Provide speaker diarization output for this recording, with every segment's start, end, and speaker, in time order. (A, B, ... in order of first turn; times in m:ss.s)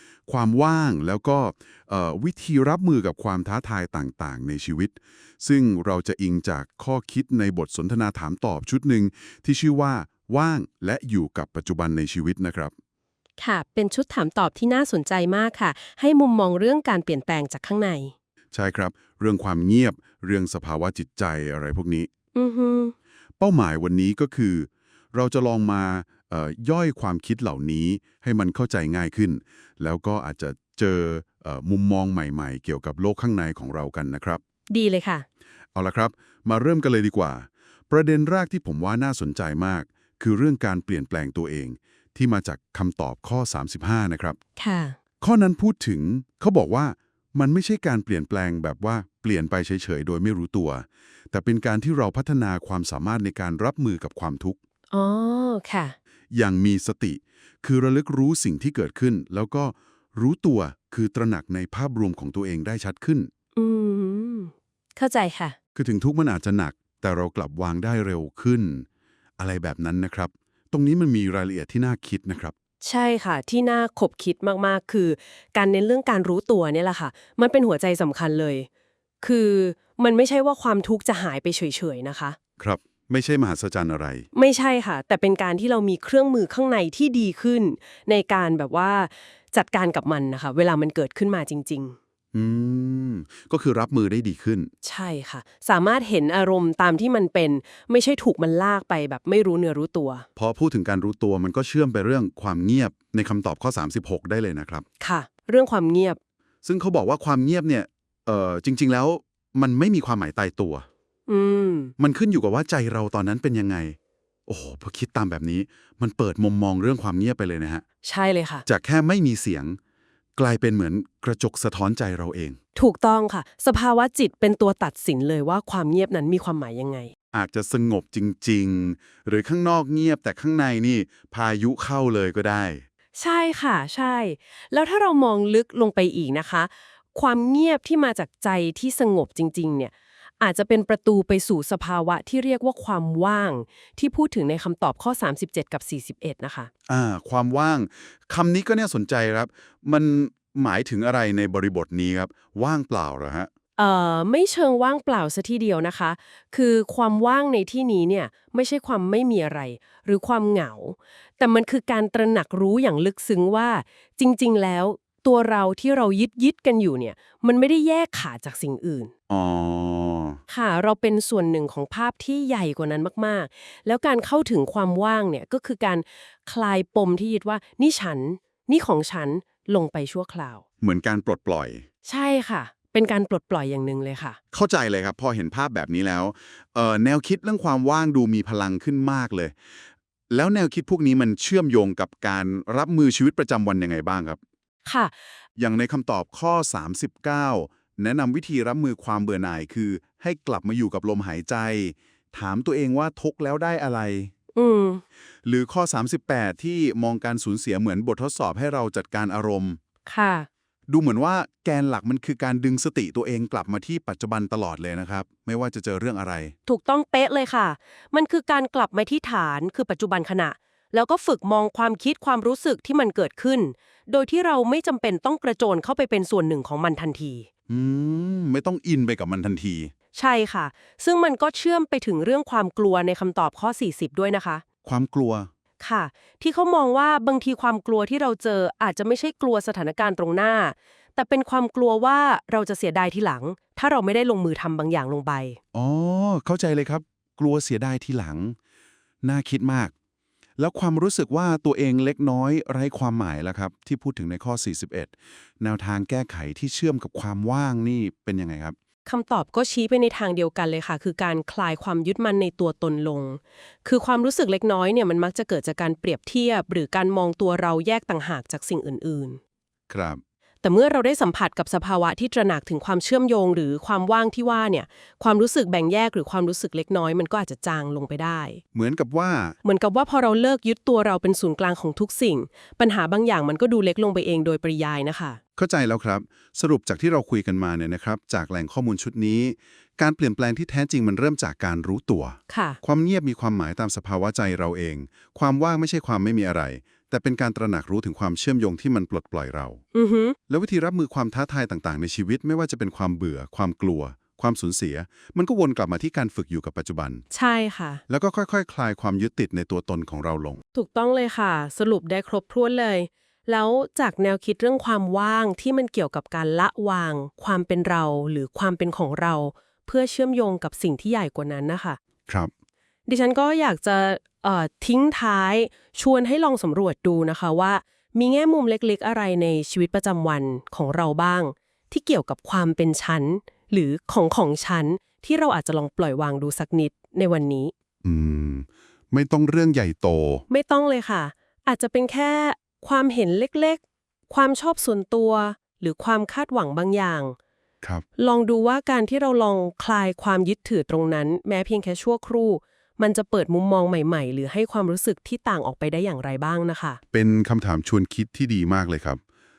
0:00.3-0:12.7 A
0:13.4-0:18.1 B
0:18.5-0:22.1 A
0:22.3-0:22.9 B
0:23.4-0:34.4 A
0:34.7-0:35.2 B
0:35.8-0:44.4 A
0:44.6-0:45.0 B
0:45.2-0:54.6 A
0:54.9-0:56.0 B
0:56.3-1:03.3 A
1:03.6-1:05.6 B
1:05.8-1:08.9 A
1:09.4-1:12.5 A
1:12.8-1:18.7 B
1:19.2-1:22.4 B
1:22.6-1:24.3 A
1:24.3-1:32.0 B
1:32.3-1:34.7 A
1:34.8-1:40.3 B
1:40.4-1:44.8 A
1:45.0-1:46.2 B
1:46.6-1:50.9 A
1:51.3-1:51.9 B
1:52.0-1:54.0 A
1:54.5-1:57.8 A
1:58.0-1:58.7 B
1:58.7-1:59.8 A
2:00.4-2:02.6 A
2:02.8-2:07.1 B
2:07.3-2:12.8 A
2:13.2-2:26.7 B
2:26.9-2:33.5 A
2:33.8-2:49.1 B
2:49.3-2:50.4 A
2:50.5-3:00.6 B
3:00.8-3:01.8 A
3:02.0-3:04.4 B
3:04.5-3:09.6 A
3:10.3-3:14.4 A
3:14.8-3:15.2 B
3:15.6-3:24.3 A
3:24.6-3:25.0 B
3:25.4-3:29.8 A
3:30.1-3:30.5 B
3:30.9-3:36.5 A
3:36.7-3:47.5 B
3:47.7-3:49.9 A
3:50.2-3:54.6 B
3:54.8-3:55.5 A
3:55.8-4:05.6 B
4:05.7-4:08.6 A
4:09.2-4:09.9 A
4:10.6-4:18.7 A
4:19.0-4:29.4 B
4:29.9-4:30.2 A
4:30.6-4:38.6 B
4:38.7-4:39.6 A
4:39.6-4:45.4 B
4:45.6-4:59.8 A
4:52.5-4:52.8 B
4:59.9-5:00.4 B
5:00.5-5:07.2 A
5:07.3-5:08.0 B
5:08.1-5:10.6 A
5:10.7-5:22.0 B
5:23.1-5:37.7 B
5:38.0-5:40.4 A
5:40.5-5:47.4 B
5:48.2-5:57.0 B
5:57.1-5:59.2 A